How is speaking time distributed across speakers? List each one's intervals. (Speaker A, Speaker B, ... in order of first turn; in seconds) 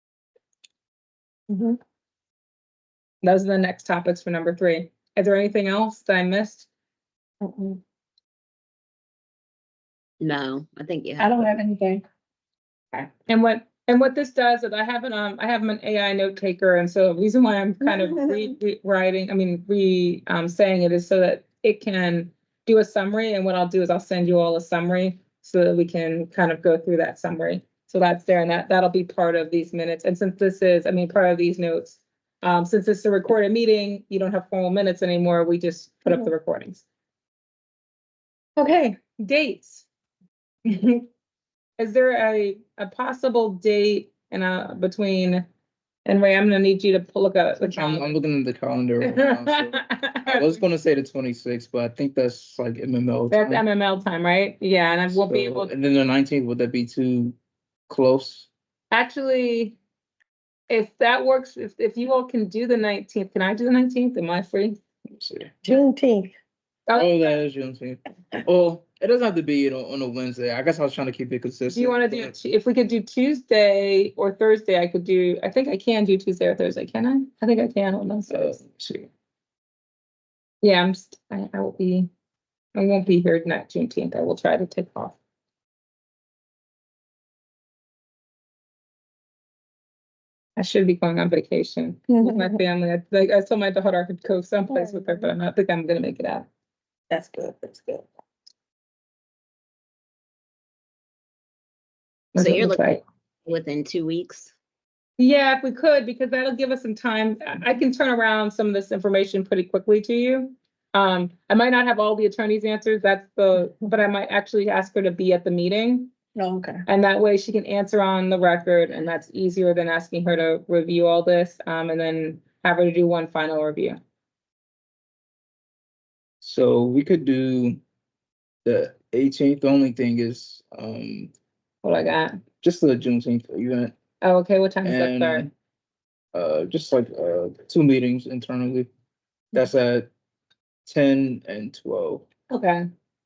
Speaker A: 1.5-1.8, 7.4-7.8, 11.2-12.0, 17.9-18.1, 65.7-66.3, 92.1-92.6, 94.7-95.3, 97.1-98.1, 116.3-116.8
Speaker B: 3.2-6.7, 12.9-36.8, 38.6-39.9, 40.6-41.0, 41.8-45.4, 46.0-48.2, 49.0-50.6, 53.3-55.7, 58.9-59.8, 60.7-64.8, 71.7-79.1, 80.6-82.1, 82.7-85.2, 90.5-96.5, 102.3-103.0, 105.2-116.1, 116.9-124.0, 131.8-132.4, 134.2-135.5, 142.5-142.8
Speaker C: 10.2-11.5, 102.4-104.5
Speaker D: 47.6-53.6, 55.1-57.4, 57.9-58.5, 65.1-65.7, 66.9-72.3, 78.3-78.7, 126.4-127.8, 128.6-131.3, 132.6-133.9, 134.8-135.5, 136.3-138.9, 139.5-140.1, 140.8-142.2